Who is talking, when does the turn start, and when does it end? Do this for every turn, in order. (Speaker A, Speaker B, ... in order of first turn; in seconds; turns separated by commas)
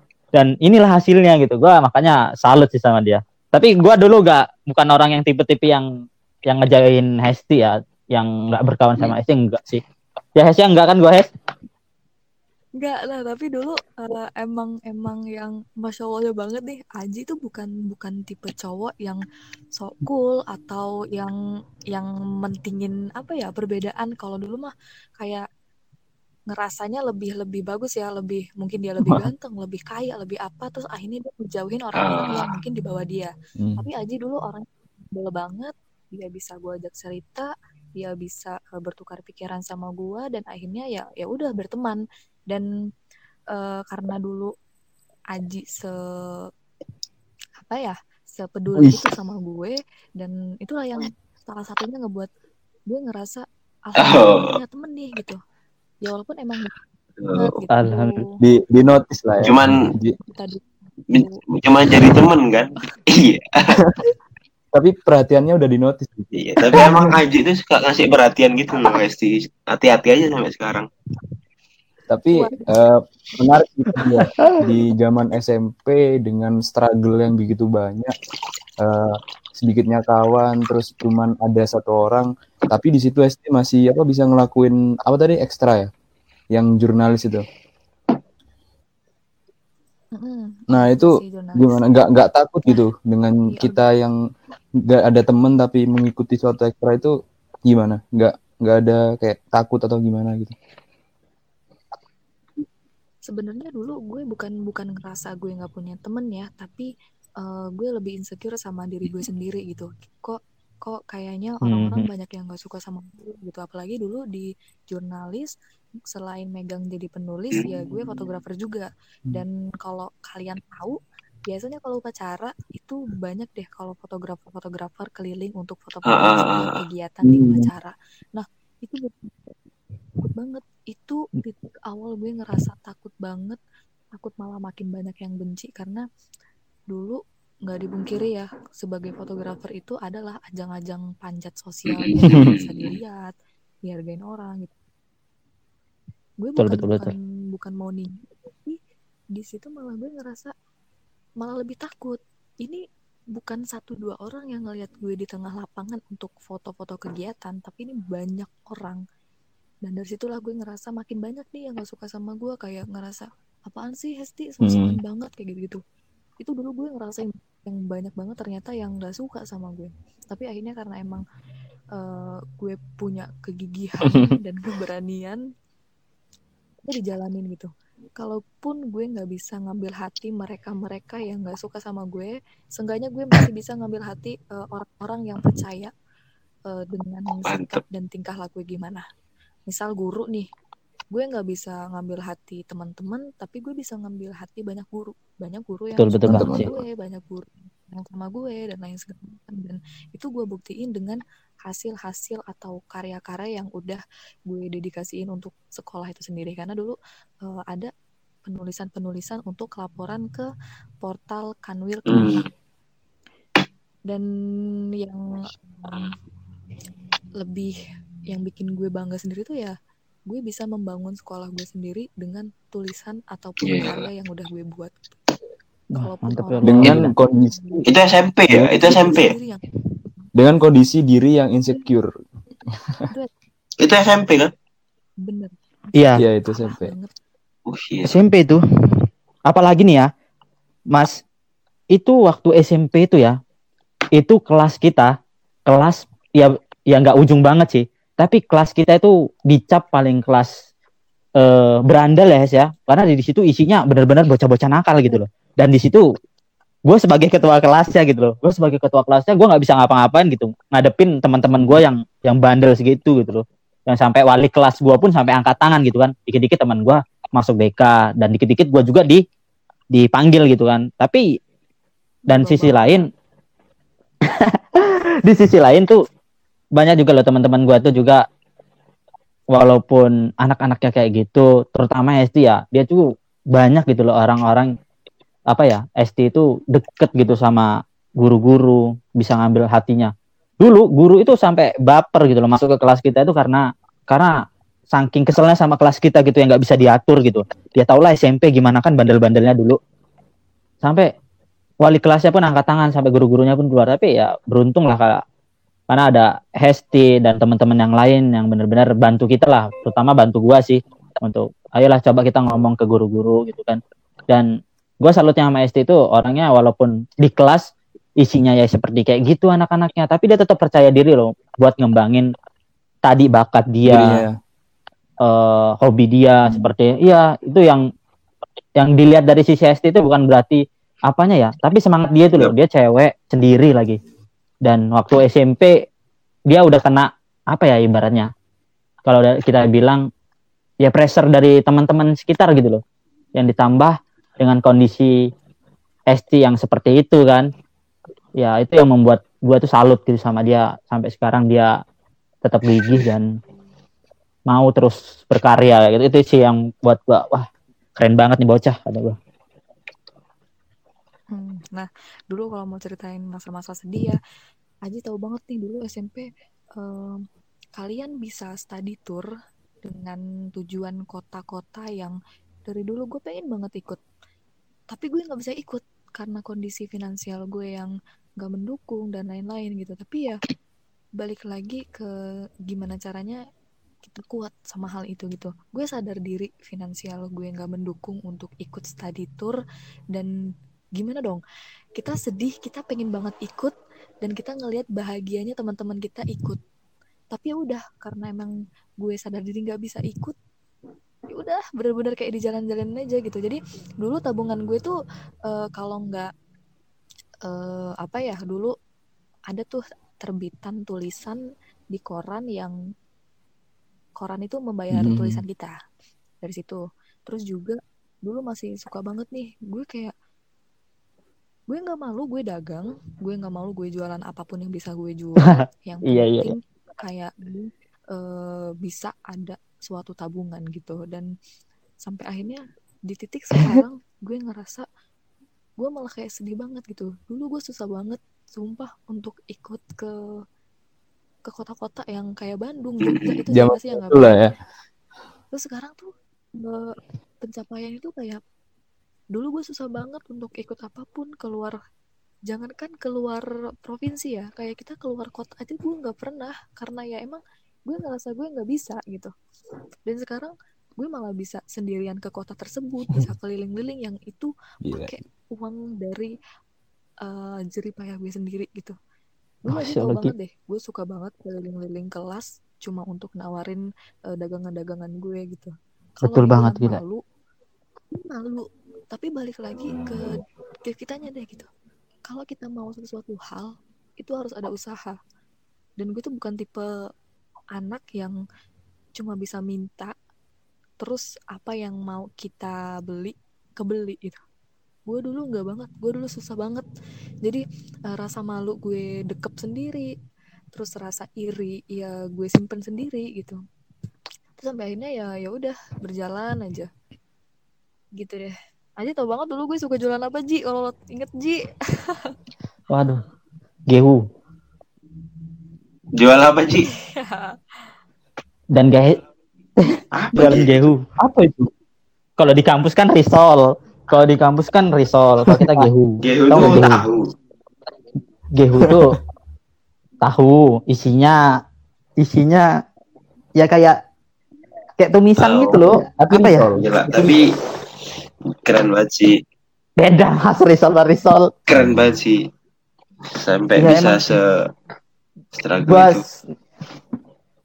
Speaker A: 0.3-5.9, Speaker A: 6.5-9.8, Speaker A: 10.4-11.3, Speaker B: 12.8-19.2, Speaker B: 19.8-21.3, Speaker B: 21.9-25.4, Speaker B: 26.5-42.7, Speaker C: 32.0-32.5, Speaker B: 43.5-44.5, Speaker B: 45.3-46.5, Speaker B: 47.6-52.3, Speaker D: 48.8-49.1, Speaker B: 52.9-55.4, Speaker C: 54.0-54.5, Speaker B: 56.0-56.7, Speaker C: 57.2-57.5, Speaker B: 57.3-58.3, Speaker A: 57.7-58.3, Speaker D: 58.4-60.2, Speaker C: 59.4-59.8, Speaker B: 60.2-62.1, Speaker C: 61.1-63.8, Speaker D: 64.7-67.1, Speaker C: 66.3-70.9, Speaker D: 72.1-78.1, Speaker B: 72.3-72.7, Speaker B: 74.2-74.5, Speaker D: 78.8-85.9, Speaker D: 86.5-87.5, Speaker B: 90.2-91.9, Speaker D: 90.7-94.2, Speaker B: 93.5-93.8, Speaker D: 94.8-97.1, Speaker D: 97.7-100.5, Speaker B: 103.3-106.9, Speaker B: 107.4-115.5, Speaker A: 111.7-112.1, Speaker B: 116.1-129.6, Speaker C: 126.1-126.8, Speaker D: 127.2-127.7, Speaker B: 130.2-133.6, Speaker B: 134.2-136.0, Speaker B: 136.9-143.3, Speaker C: 141.9-142.9, Speaker D: 142.2-142.5, Speaker B: 143.9-144.7, Speaker B: 146.4-148.8, Speaker A: 146.6-147.1, Speaker B: 149.3-150.5, Speaker B: 151.4-152.8, Speaker B: 153.3-159.0, Speaker B: 159.8-165.8, Speaker D: 164.6-164.9, Speaker B: 166.4-171.2, Speaker B: 171.9-175.4, Speaker B: 176.8-185.9, Speaker B: 186.7-189.0, Speaker C: 187.4-187.8, Speaker B: 189.7-190.5, Speaker B: 191.1-207.9, Speaker A: 196.0-196.7, Speaker D: 196.3-196.7, Speaker B: 208.5-210.5, Speaker B: 211.0-212.4, Speaker C: 212.1-212.5, Speaker B: 215.0-216.1, Speaker B: 217.4-217.7, Speaker B: 218.3-219.8, Speaker B: 220.3-225.1, Speaker C: 223.6-224.1, Speaker B: 225.9-227.9, Speaker A: 226.0-227.1, Speaker D: 226.7-227.9, Speaker C: 227.9-229.3, Speaker D: 228.5-229.0, Speaker B: 228.8-230.3, Speaker D: 230.3-232.1, Speaker D: 232.7-233.0, Speaker C: 233.8-234.5, Speaker B: 235.2-235.6, Speaker A: 235.9-236.2, Speaker D: 236.2-236.9, Speaker B: 236.4-237.1, Speaker C: 237.7-238.2, Speaker A: 238.0-238.6, Speaker A: 239.5-240.1, Speaker A: 240.9-241.2, Speaker A: 241.9-243.4, Speaker A: 244.2-250.5, Speaker A: 251.4-256.1, Speaker A: 256.9-269.2, Speaker A: 269.9-271.4, Speaker B: 272.3-273.0, Speaker A: 272.3-273.1, Speaker A: 274.3-276.0, Speaker A: 276.8-278.2, Speaker A: 279.5-284.7, Speaker A: 285.5-299.8, Speaker A: 300.8-301.1, Speaker A: 301.8-305.2, Speaker A: 305.9-314.5, Speaker A: 315.0-322.3, Speaker A: 323.1-324.3, Speaker D: 323.9-324.4, Speaker A: 325.2-327.9, Speaker A: 328.8-334.0, Speaker A: 334.6-335.9, Speaker A: 336.5-338.3, Speaker A: 339.1-340.1, Speaker A: 340.8-342.8, Speaker A: 343.4-345.3, Speaker A: 346.1-347.5, Speaker A: 348.4-351.8, Speaker A: 352.4-353.3, Speaker A: 354.5-357.5, Speaker A: 358.0-359.2, Speaker B: 361.3-364.2, Speaker B: 364.9-367.2, Speaker B: 367.8-369.3, Speaker B: 369.9-372.2, Speaker B: 372.7-374.0, Speaker B: 374.9-380.4, Speaker B: 381.2-382.1, Speaker B: 382.7-383.4, Speaker B: 384.0-389.6, Speaker B: 391.0-391.4, Speaker B: 392.0-396.6, Speaker B: 397.3-400.4, Speaker B: 401.3-404.9, Speaker B: 405.5-406.3, Speaker B: 407.5-408.7, Speaker B: 409.5-411.4, Speaker B: 411.9-412.7, Speaker B: 414.2-415.7, Speaker D: 414.9-415.4, Speaker B: 416.4-420.1, Speaker B: 421.7-431.3, Speaker A: 425.4-426.5, Speaker B: 432.0-434.9, Speaker B: 435.8-440.1, Speaker B: 441.5-444.4, Speaker C: 443.0-443.4, Speaker D: 443.5-444.5, Speaker B: 445.5-448.4, Speaker B: 449.3-451.8, Speaker B: 452.5-459.3, Speaker B: 460.1-466.3, Speaker D: 464.8-465.1, Speaker B: 467.2-469.0, Speaker B: 469.6-473.8, Speaker A: 469.7-470.3, Speaker B: 474.3-477.2, Speaker A: 476.2-477.0, Speaker B: 478.1-481.7, Speaker B: 482.3-485.2, Speaker B: 486.0-486.9, Speaker B: 487.8-488.4, Speaker B: 489.2-490.1, Speaker B: 491.0-494.4, Speaker B: 495.1-496.9, Speaker B: 497.4-500.1, Speaker B: 500.7-503.6, Speaker B: 504.6-506.9, Speaker B: 508.2-512.3, Speaker A: 512.9-513.2, Speaker A: 513.9-514.2, Speaker C: 516.1-516.9, Speaker B: 517.0-517.5, Speaker A: 518.7-519.2, Speaker A: 519.8-521.0, Speaker C: 520.1-520.9, Speaker D: 521.2-521.7, Speaker A: 522.4-527.1, Speaker D: 525.5-525.9, Speaker C: 526.2-527.3, Speaker D: 526.6-526.8, Speaker A: 528.5-529.2, Speaker D: 528.8-529.1, Speaker A: 530.2-531.5, Speaker A: 532.2-532.7, Speaker A: 533.6-534.0, Speaker A: 535.0-536.7, Speaker C: 535.4-535.8, Speaker D: 536.2-537.4, Speaker C: 536.8-537.5, Speaker C: 538.6-539.4, Speaker A: 540.0-541.8, Speaker C: 541.7-542.5, Speaker C: 543.2-544.7, Speaker A: 543.8-544.2, Speaker C: 545.5-546.2, Speaker A: 545.9-546.4